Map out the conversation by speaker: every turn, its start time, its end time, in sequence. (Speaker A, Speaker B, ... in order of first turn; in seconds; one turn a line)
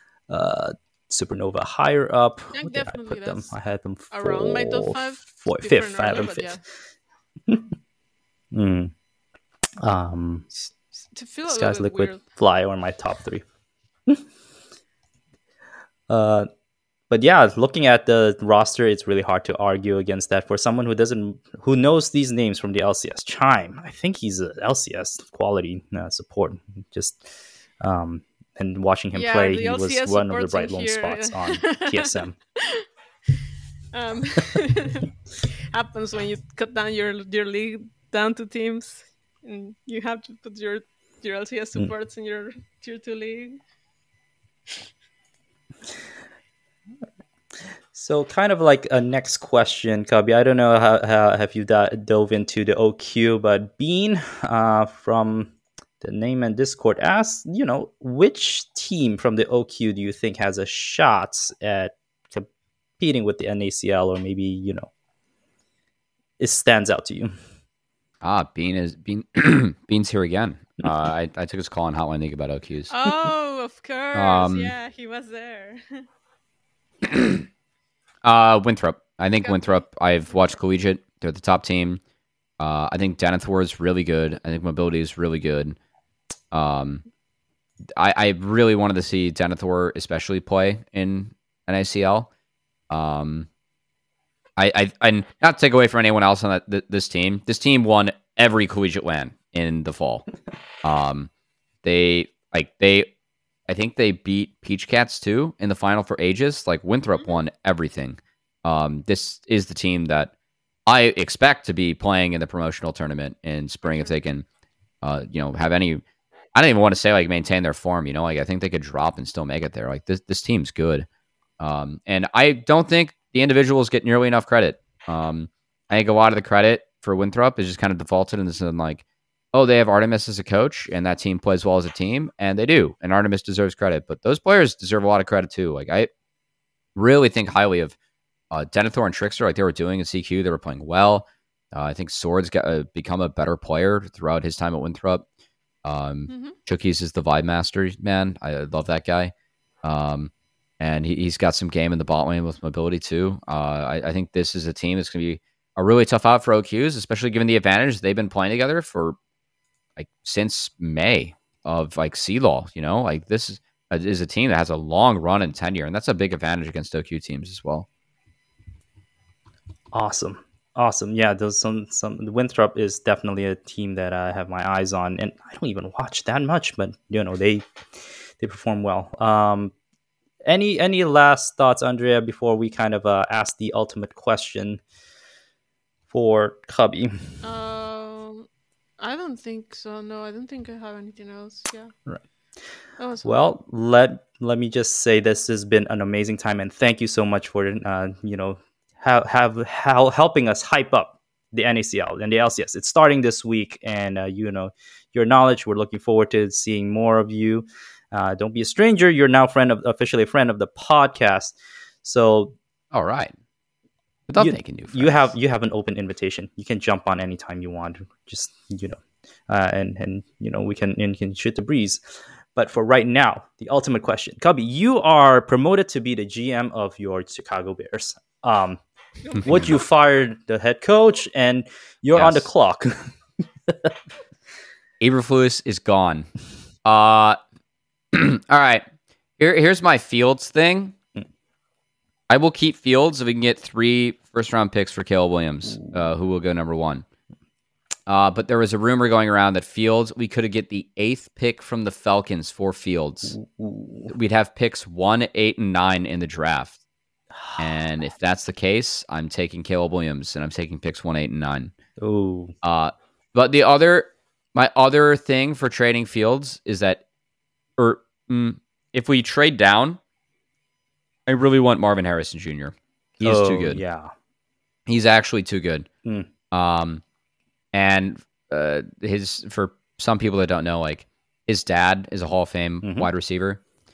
Speaker A: 0.3-6.6
Speaker B: 2.5-3.5
Speaker B: 4.1-6.6
Speaker A: 8.5-8.9
Speaker A: 9.8-10.5
Speaker B: 11.1-12.2
Speaker A: 11.5-13.4
Speaker A: 16.1-16.5
Speaker A: 17.1-27.3
Speaker A: 27.8-32.4
Speaker B: 29.1-32.9
Speaker B: 33.9-35.1
Speaker B: 35.7-43.6
Speaker A: 47.9-62.5
Speaker A: 63.0-64.9
Speaker A: 66.4-67.3
Speaker C: 68.2-72.9
Speaker B: 72.9-76.0
Speaker C: 74.1-74.7
Speaker C: 77.0-77.5
Speaker C: 78.2-82.0
Speaker B: 79.4-80.6
Speaker C: 82.6-85.8
Speaker C: 86.5-87.0
Speaker C: 88.0-92.3
Speaker C: 92.9-93.5
Speaker C: 94.6-100.3
Speaker C: 100.8-101.3
Speaker C: 101.8-103.1
Speaker C: 103.7-110.3
Speaker C: 110.9-114.5
Speaker B: 113.8-114.2
Speaker C: 115.0-116.0
Speaker C: 116.5-121.1
Speaker C: 121.6-136.1
Speaker C: 136.9-137.9
Speaker C: 138.5-145.2
Speaker C: 145.8-159.2
Speaker B: 146.3-146.6
Speaker C: 159.9-167.9
Speaker A: 169.9-177.6
Speaker A: 178.4-179.7
Speaker A: 180.4-184.8
Speaker A: 186.1-187.4
Speaker B: 187.4-188.5
Speaker B: 189.0-191.9
Speaker B: 193.0-193.5
Speaker A: 193.2-212.5
Speaker C: 212.9-213.3
Speaker C: 214.3-215.3
Speaker A: 214.4-228.8
Speaker A: 229.4-233.1
Speaker C: 232.1-232.5
Speaker A: 233.7-233.9
Speaker C: 235.0-236.3
Speaker C: 236.8-237.4
Speaker C: 238.1-238.8
Speaker C: 239.4-240.9
Speaker C: 242.3-247.0
Speaker A: 245.7-246.0
Speaker C: 248.1-253.4
Speaker A: 253.3-254.1
Speaker C: 254.1-256.8
Speaker A: 257.3-257.7
Speaker C: 257.6-261.7
Speaker A: 262.0-262.5
Speaker C: 262.6-267.0
Speaker C: 267.8-270.0
Speaker C: 271.3-273.8
Speaker A: 273.2-274.1
Speaker C: 274.9-275.9
Speaker C: 276.5-277.0
Speaker C: 277.7-283.6
Speaker A: 282.8-283.1